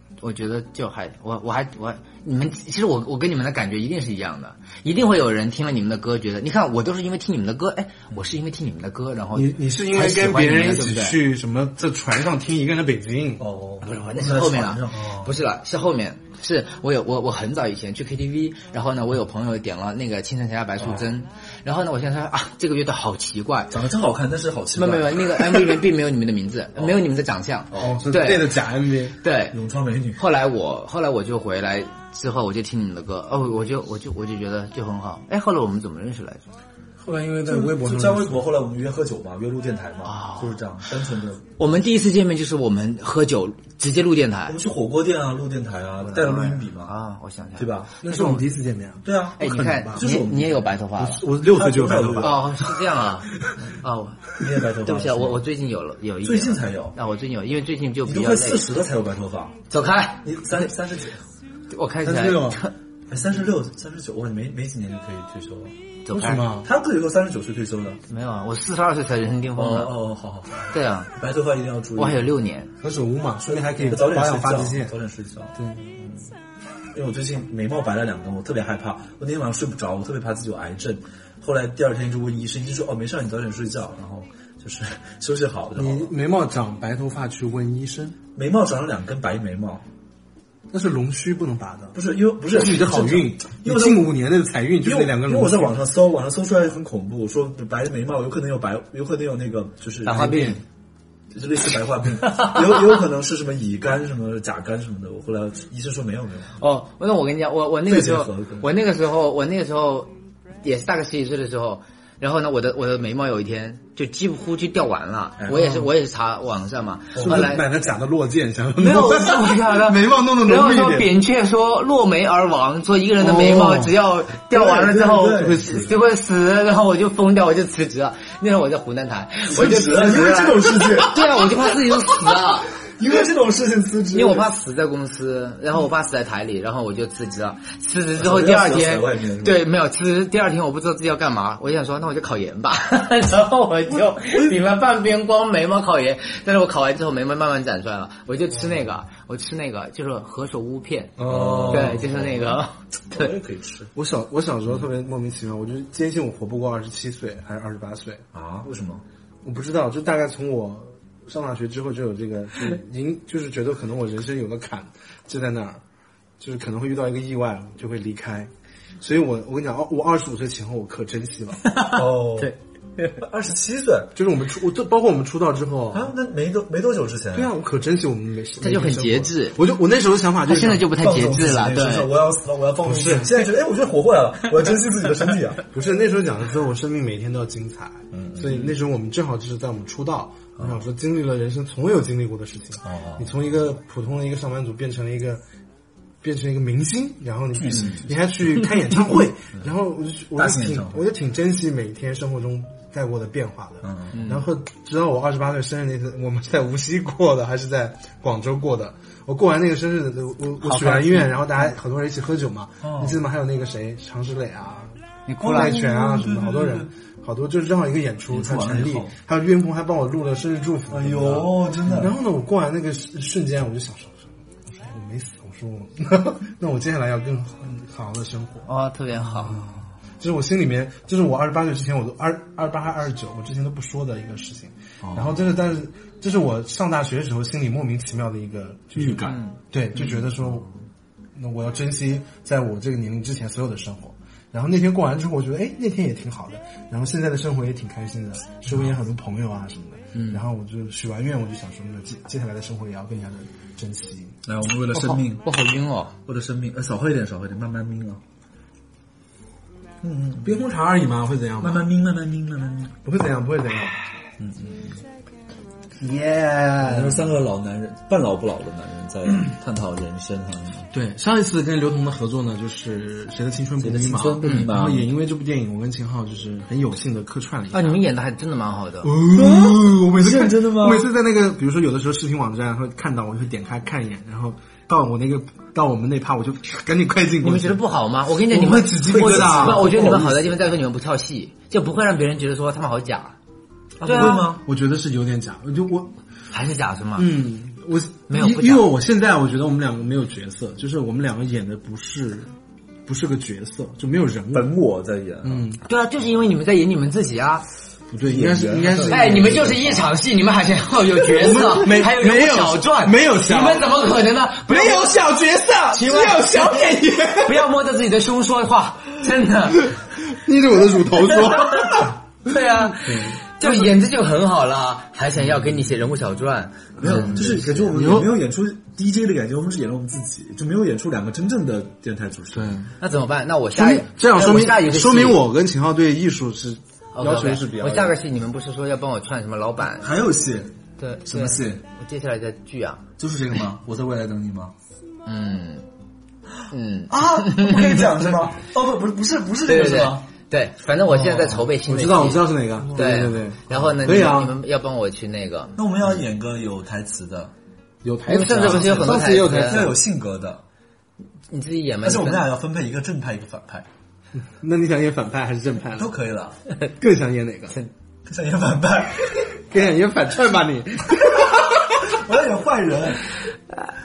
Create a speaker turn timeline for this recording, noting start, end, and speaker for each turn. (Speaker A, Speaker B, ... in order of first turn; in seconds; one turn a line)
Speaker A: 0.2-11.2
Speaker B: 9.3-13.4
Speaker C: 13.4-15.3
Speaker A: 13.8-23.8
Speaker C: 23.7-25.8
Speaker A: 24.8-28.5
Speaker C: 27.7-28.0
Speaker B: 27.8-29.1
Speaker A: 29.2-29.5
Speaker C: 29.5-30.2
Speaker A: 30.2-36.4
Speaker B: 37.0-38.4
Speaker C: 37.4-41.5
Speaker A: 40.0-40.6
Speaker A: 41.6-44.6
Speaker C: 44.5-46.9
Speaker A: 46.0-48.4
Speaker C: 47.6-48.0
Speaker B: 48.0-50.0
Speaker C: 49.0-50.8
Speaker A: 49.4-51.2
Speaker B: 51.0-52.4
Speaker C: 51.4-52.5
Speaker A: 52.2-53.3
Speaker A: 53.8-54.3
Speaker C: 54.4-55.4
Speaker A: 54.8-58.7
Speaker C: 56.2-57.0
Speaker C: 58.0-59.6
Speaker A: 59.7-60.4
Speaker C: 60.2-61.2
Speaker A: 61.7-62.7
Speaker B: 62.0-62.6
Speaker C: 63.1-65.7
Speaker A: 66.0-66.5
Speaker B: 66.1-66.7
Speaker C: 66.6-68.0
Speaker A: 68.1-70.0
Speaker C: 69.5-72.3
Speaker A: 70.7-71.1
Speaker A: 72.0-72.7
Speaker B: 72.8-74.9
Speaker C: 73.5-76.3
Speaker C: 76.9-86.1
Speaker B: 85.8-88.2
Speaker C: 88.3-89.8
Speaker B: 90.7-92.0
Speaker C: 91.9-94.1
Speaker B: 92.5-95.7
Speaker C: 94.8-100.5
Speaker A: 100.0-100.6
Speaker B: 100.1-100.6
Speaker C: 101.3-106.6
Speaker A: 106.6-117.6
Speaker C: 107.9-108.7
Speaker C: 115.4-115.7
Speaker C: 117.1-117.5
Speaker B: 117.2-121.1
Speaker A: 118.8-132.7
Speaker B: 123.2-123.9
Speaker C: 124.5-125.9
Speaker B: 125.4-125.9
Speaker C: 129.5-131.5
Speaker C: 133.0-134.5
Speaker A: 134.1-151.1
Speaker C: 138.1-139.6
Speaker C: 144.2-144.6
Speaker B: 151.2-152.1
Speaker C: 151.2-152.5
Speaker A: 151.7-153.3
Speaker C: 153.1-153.9
Speaker B: 153.9-158.2
Speaker C: 158.3-159.0
Speaker B: 159.4-165.8
Speaker B: 166.4-168.5
Speaker B: 169.0-171.6
Speaker A: 171.6-173.2
Speaker C: 171.9-172.5
Speaker C: 173.2-174.1
Speaker B: 174.2-176.1
Speaker C: 175.9-177.5
Speaker B: 177.3-180.9
Speaker A: 178.6-179.6
Speaker A: 180.4-182.1
Speaker C: 180.9-185.6
Speaker B: 182.8-183.4
Speaker B: 185.7-195.4
Speaker C: 188.1-188.7
Speaker C: 192.8-193.3
Speaker B: 196.2-228.7
Speaker C: 197.5-199.7
Speaker C: 200.3-201.0
Speaker C: 203.8-204.2
Speaker A: 204.1-204.4
Speaker A: 210.6-211.3
Speaker C: 212.8-213.2
Speaker A: 215.2-215.8
Speaker C: 215.4-216.9
Speaker C: 218.3-219.1
Speaker C: 220.9-222.2
Speaker A: 228.7-229.6
Speaker B: 229.4-240.7
Speaker C: 235.0-235.4
Speaker C: 238.9-240.6
Speaker B: 241.3-254.4
Speaker A: 250.1-250.4
Speaker C: 254.4-255.4
Speaker A: 254.9-256.1
Speaker C: 256.2-258.2
Speaker C: 260.0-260.6
Speaker B: 260.4-261.9
Speaker C: 261.6-262.9
Speaker B: 263.0-264.0
Speaker C: 264.4-265.0
Speaker B: 266.0-267.3
Speaker C: 266.8-270.9
Speaker B: 270.9-278.0
Speaker C: 273.8-275.1
Speaker A: 274.4-274.7
Speaker A: 277.7-279.1
Speaker B: 279.0-287.8
Speaker C: 279.3-281.1
Speaker A: 287.4-293.4
Speaker B: 288.5-290.3
Speaker C: 288.9-290.5
Speaker C: 294.0-294.6
Speaker A: 294.0-294.4
Speaker B: 294.1-296.1
Speaker A: 296.5-297.3
Speaker B: 297.2-302.5
Speaker A: 298.3-298.9
Speaker B: 303.1-304.7
Speaker C: 304.5-305.7
Speaker B: 305.4-305.8
Speaker A: 305.8-307.6
Speaker B: 308.1-310.1
Speaker C: 308.2-309.7
Speaker A: 309.1-315.2
Speaker B: 311.2-314.0
Speaker B: 314.7-317.7
Speaker A: 315.9-319.9
Speaker B: 319.8-322.2
Speaker A: 321.4-327.7
Speaker B: 322.7-323.9
Speaker C: 327.0-332.8
Speaker B: 327.1-328.4
Speaker B: 332.5-332.9
Speaker A: 333.0-335.4
Speaker B: 333.7-338.2
Speaker A: 337.1-340.1
Speaker C: 340.0-341.8
Speaker A: 341.0-343.0
Speaker C: 343.2-344.7
Speaker A: 345.2-345.9
Speaker A: 346.7-348.3
Speaker C: 347.1-350.3
Speaker A: 349.6-355.8
Speaker B: 351.1-354.6
Speaker C: 355.8-357.5
Speaker B: 358.0-360.0
Speaker A: 358.3-359.9
Speaker C: 358.6-360.6
Speaker A: 361.5-362.4
Speaker C: 362.0-363.9
Speaker B: 364.4-366.1
Speaker C: 365.9-366.6
Speaker B: 367.0-367.8
Speaker C: 368.2-369.5
Speaker B: 369.7-372.0
Speaker C: 372.0-373.2